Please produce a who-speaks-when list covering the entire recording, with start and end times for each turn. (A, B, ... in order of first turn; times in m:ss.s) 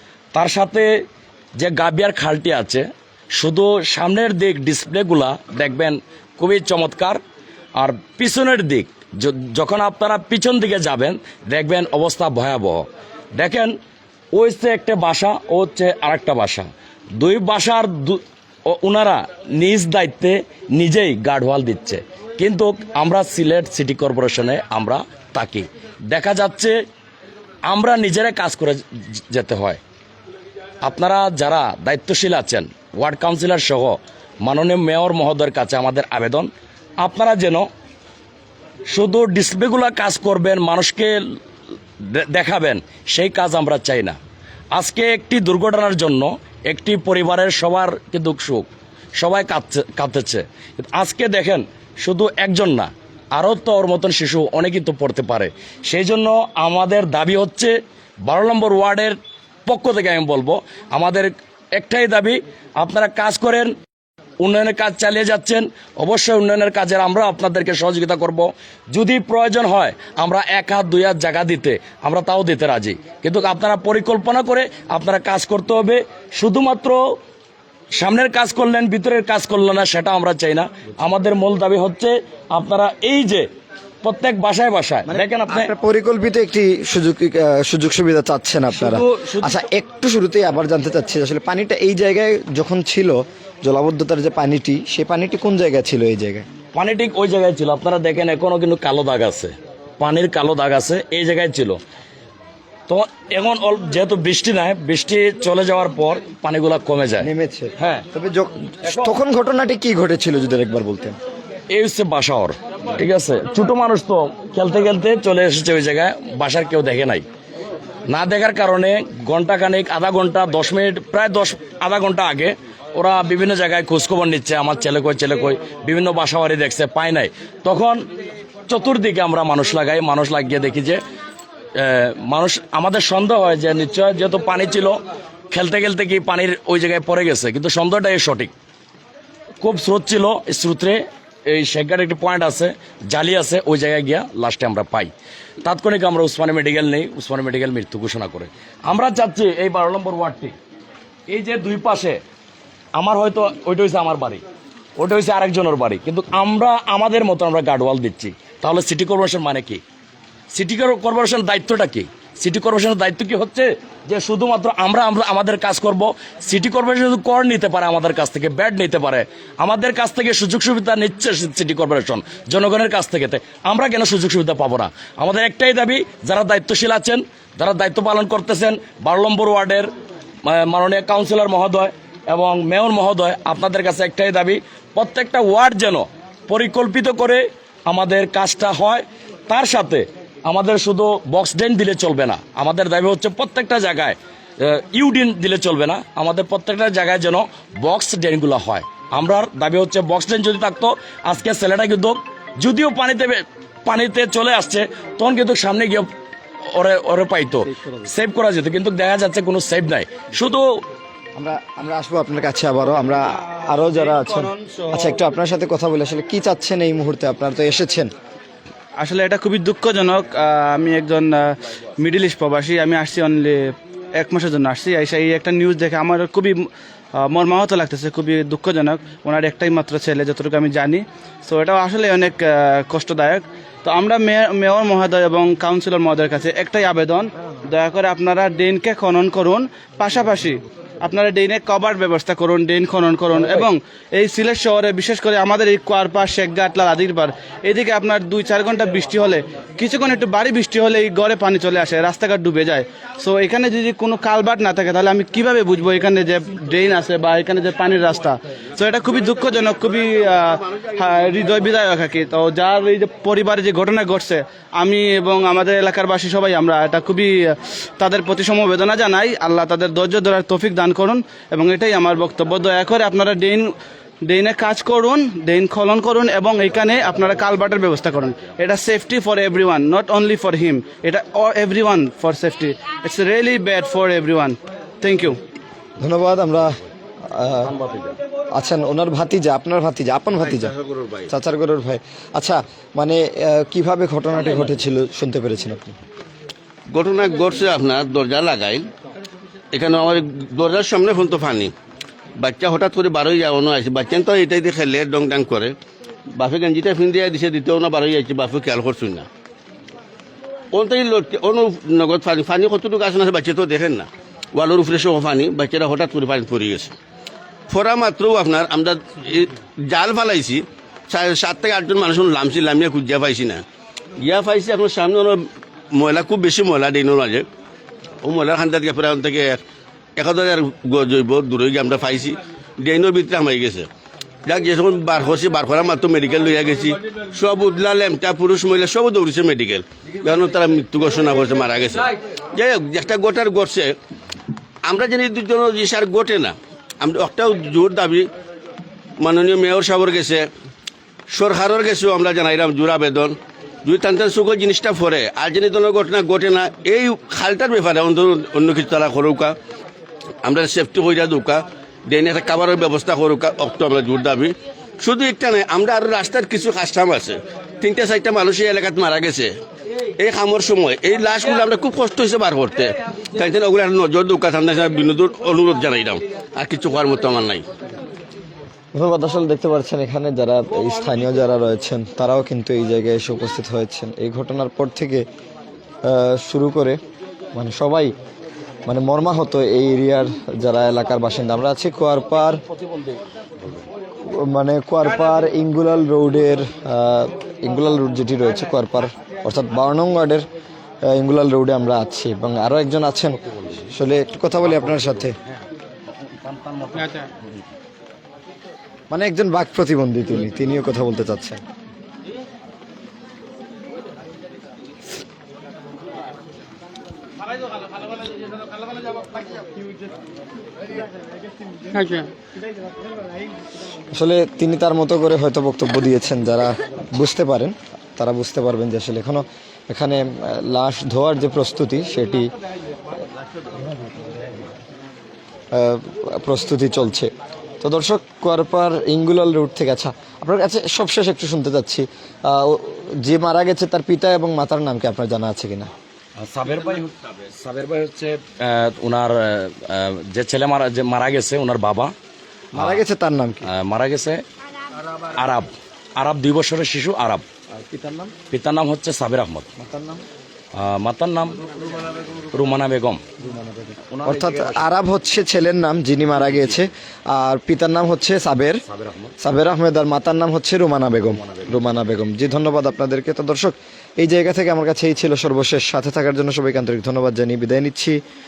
0:00.3-0:00.9 A
0:01.6-0:02.8 A
0:03.4-0:07.2 A
0:07.8-0:13.7 A
0:14.3-0:16.7 A
0:17.2-0:26.7 A
0:27.7-0:29.8 A
0:30.8-0:36.5 A
0:37.0-0:37.6 A
0:38.9-0:41.2 A
0:42.0-0:44.2 A
0:44.7-0:57.7 A
0:58.2-1:03.7 A
1:04.4-1:17.0 A
1:18.0-1:23.4 A
1:24.0-1:25.7 A
1:25.1-1:36.4 B
1:28.7-1:29.6 A
1:36.7-1:41.8 A
1:42.9-1:47.3 A
1:47.2-1:51.2 B
1:47.8-1:48.0 A
1:48.8-1:49.1 A
1:51.7-1:57.2 A
1:58.1-2:08.0 A
2:08.7-2:11.0 A
2:11.8-2:15.0 A
2:15.5-2:18.5 A
2:19.6-2:25.1 A
2:25.6-2:30.5 A
2:31.3-2:32.2 A
2:33.0-2:34.4 A
2:35.0-2:39.8 A
2:40.5-2:59.9 A
3:00.4-3:26.1 A
3:26.7-3:30.6 A
3:31.3-3:38.1 B
3:34.0-3:34.9 C
3:39.0-4:19.9 C
4:19.2-4:21.8 D
4:20.4-4:45.4 C
4:46.0-4:46.7 B
4:47.3-4:47.7 B
4:47.6-4:48.2 A
4:48.5-4:50.7 B
4:50.6-4:51.3 D
4:51.3-4:55.9 B
4:56.9-4:58.8 D
4:59.7-5:01.7 D
5:02.4-5:05.7 D
5:06.4-5:09.3 D
5:10.7-5:16.9 D
5:17.7-5:23.6 D
5:24.2-5:27.4 D
5:28.2-5:29.6 D
5:30.2-5:33.9 D
5:34.5-5:44.0 D
5:44.8-5:48.3 D
5:49.2-5:50.5 D
5:51.3-5:59.5 D
6:00.4-6:09.5 D
6:10.2-6:17.6 D
6:18.9-6:25.2 B
6:26.0-6:27.0 B
6:27.5-6:28.1 B
6:28.8-6:32.6 B
6:32.4-6:33.8 A
6:34.3-6:40.4 B
6:41.0-6:43.3 B
6:43.6-6:43.9 A
6:43.9-6:45.3 B
6:44.6-6:45.6 A
6:46.2-6:47.3 A
6:49.1-6:51.6 B
7:04.1-7:12.5 B
7:15.7-7:25.9 B
7:26.4-7:32.1 A
7:32.7-7:33.0 A
7:32.8-7:33.6 B
7:33.6-7:34.4 A
7:35.3-7:37.5 A
7:37.7-7:38.3 B
7:38.5-7:39.7 A
7:39.8-7:40.2 B
7:40.7-7:41.6 A
7:42.5-7:43.3 A
7:43.4-7:43.7 B
7:43.8-7:44.9 A
7:44.2-7:48.8 B
7:46.5-7:46.8 A
7:48.9-7:49.3 A
7:49.4-7:58.2 B
7:51.3-7:51.8 A